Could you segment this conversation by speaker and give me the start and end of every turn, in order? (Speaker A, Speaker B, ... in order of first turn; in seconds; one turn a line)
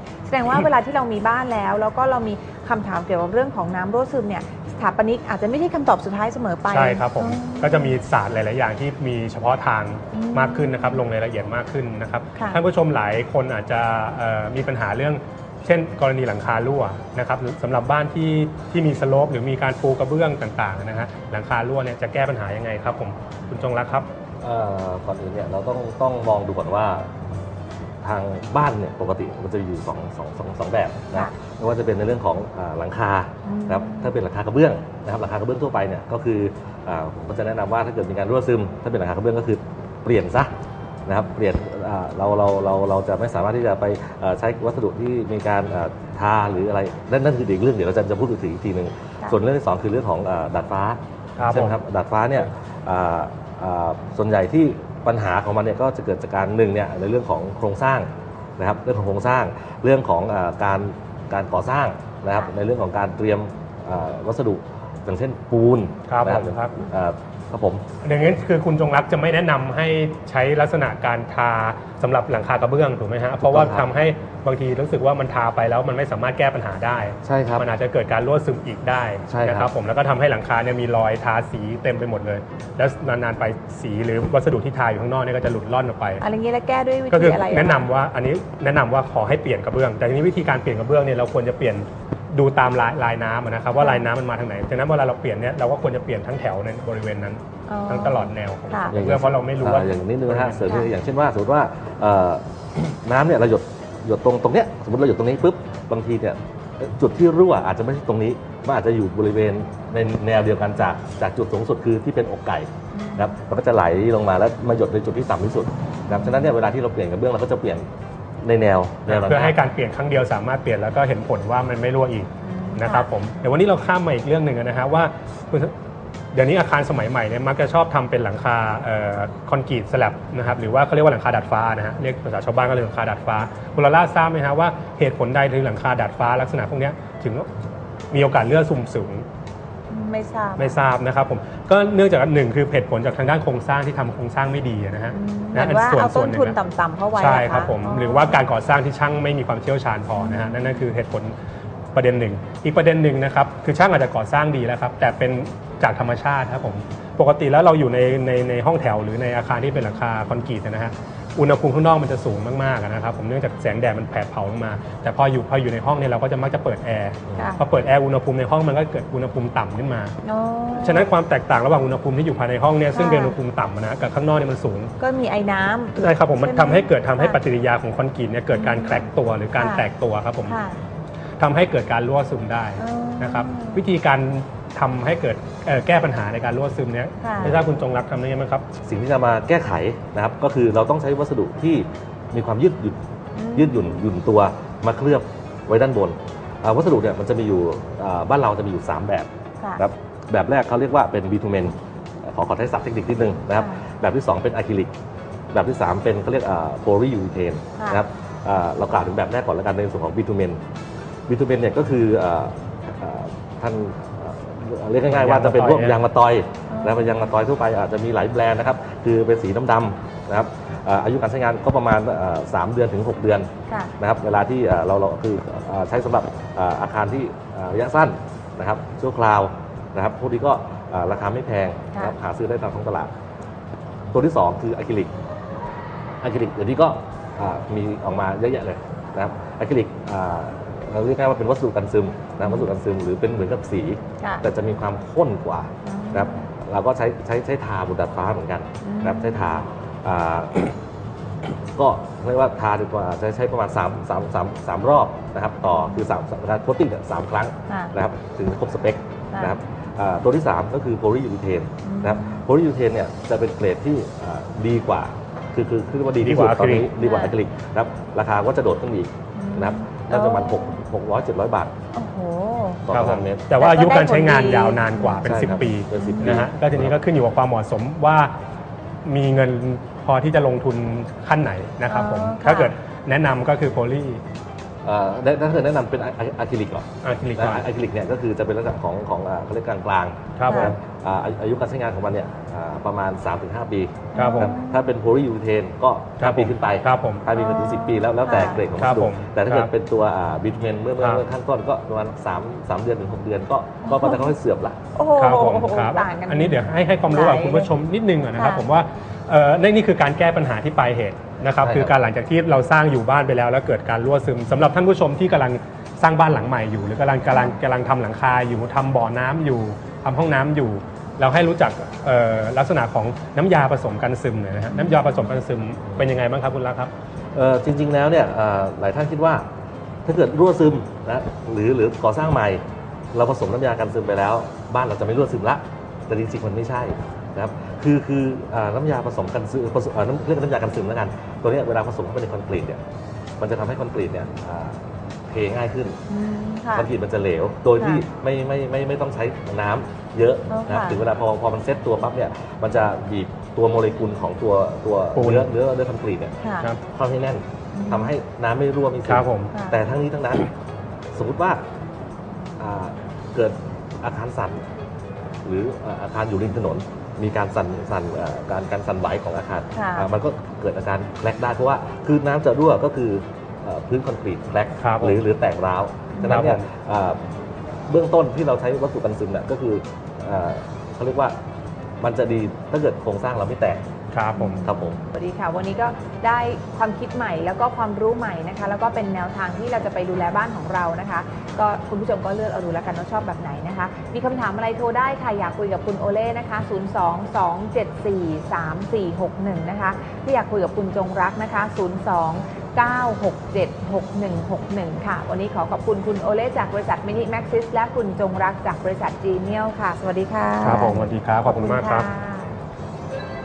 Speaker A: 0.3-8.0
Speaker B: 6.7-24.1
Speaker A: 10.1-11.1
Speaker A: 12.3-12.6
Speaker C: 24.4-27.1
Speaker C: 28.0-40.5
Speaker A: 33.5-34.2
Speaker C: 41.1-67.8
Speaker B: 51.4-51.8
Speaker B: 66.1-66.8
Speaker B: 68.0-86.2
Speaker C: 73.4-73.9
Speaker C: 77.2-77.7
Speaker C: 79.3-79.7
Speaker A: 86.2-87.9
Speaker B: 87.1-100.7
Speaker A: 93.8-94.0
Speaker A: 97.7-99.0
Speaker C: 98.9-117.9
Speaker A: 100.7-100.9
Speaker A: 112.9-113.4
Speaker A: 116.2-116.5
Speaker C: 118.4-119.6
Speaker B: 119.1-125.7
Speaker A: 122.4-123.1
Speaker B: 126.3-137.5
Speaker B: 138.1-139.3
Speaker A: 139.9-140.9
Speaker B: 140.6-146.6
Speaker A: 145.1-148.4
Speaker B: 147.2-151.3
Speaker A: 150.2-150.9
Speaker B: 151.9-170.2
Speaker A: 167.3-167.6
Speaker A: 170.2-171.1
Speaker B: 170.8-174.9
Speaker A: 172.9-173.4
Speaker A: 175.0-177.4
Speaker B: 176.0-180.6
Speaker A: 178.5-179.1
Speaker A: 179.6-179.9
Speaker A: 180.5-180.8
Speaker B: 181.4-188.6
Speaker A: 182.8-183.8
Speaker A: 187.2-187.6
Speaker C: 188.8-193.0
Speaker A: 193.3-194.0
Speaker C: 193.5-204.9
Speaker A: 203.6-203.8
Speaker C: 205.5-210.6
Speaker A: 207.8-208.0
Speaker C: 211.3-233.1
Speaker B: 215.1-216.0
Speaker A: 216.7-217.1
Speaker A: 223.7-223.9
Speaker C: 234.1-235.1
Speaker C: 236.2-250.8
Speaker A: 245.8-246.5
Speaker A: 248.8-249.6
Speaker C: 251.8-271.7
Speaker A: 259.3-259.6
Speaker A: 261.8-262.4
Speaker B: 266.2-266.9
Speaker A: 267.0-267.3
Speaker A: 269.4-270.8
Speaker A: 271.9-272.8
Speaker C: 272.9-273.5
Speaker B: 272.9-278.3
Speaker A: 273.6-276.4
Speaker C: 275.2-276.9
Speaker B: 279.1-284.2
Speaker A: 281.9-282.7
Speaker C: 284.9-304.8
Speaker B: 287.0-287.7
Speaker B: 290.4-290.8
Speaker A: 290.5-290.7
Speaker A: 294.1-294.9
Speaker B: 294.1-294.5
Speaker B: 296.2-297.2
Speaker A: 297.4-298.6
Speaker B: 298.8-299.7
Speaker A: 303.9-304.3
Speaker A: 304.9-307.7
Speaker B: 305.2-326.9
Speaker A: 308.4-308.7
Speaker C: 311.6-311.9
Speaker A: 317.3-317.6
Speaker A: 324.7-325.4
Speaker C: 327.4-329.5
Speaker C: 330.1-342.8
Speaker C: 343.4-346.0
Speaker A: 346.1-346.9
Speaker C: 346.7-356.4
Speaker A: 347.8-348.1
Speaker A: 350.5-351.0
Speaker B: 355.1-355.5
Speaker A: 356.4-356.7
Speaker C: 356.9-360.5
Speaker A: 357.7-358.1
Speaker B: 359.1-359.5
Speaker A: 359.5-359.8
Speaker C: 361.1-361.6
Speaker C: 362.6-364.6
Speaker C: 365.4-377.2
Speaker A: 369.7-370.1
Speaker B: 374.8-375.2
Speaker A: 376.1-376.4
Speaker B: 376.2-376.6
Speaker C: 377.9-381.4
Speaker C: 382.0-383.8
Speaker B: 384.1-384.7
Speaker A: 384.4-412.5
Speaker C: 384.6-385.0
Speaker B: 410.6-412.1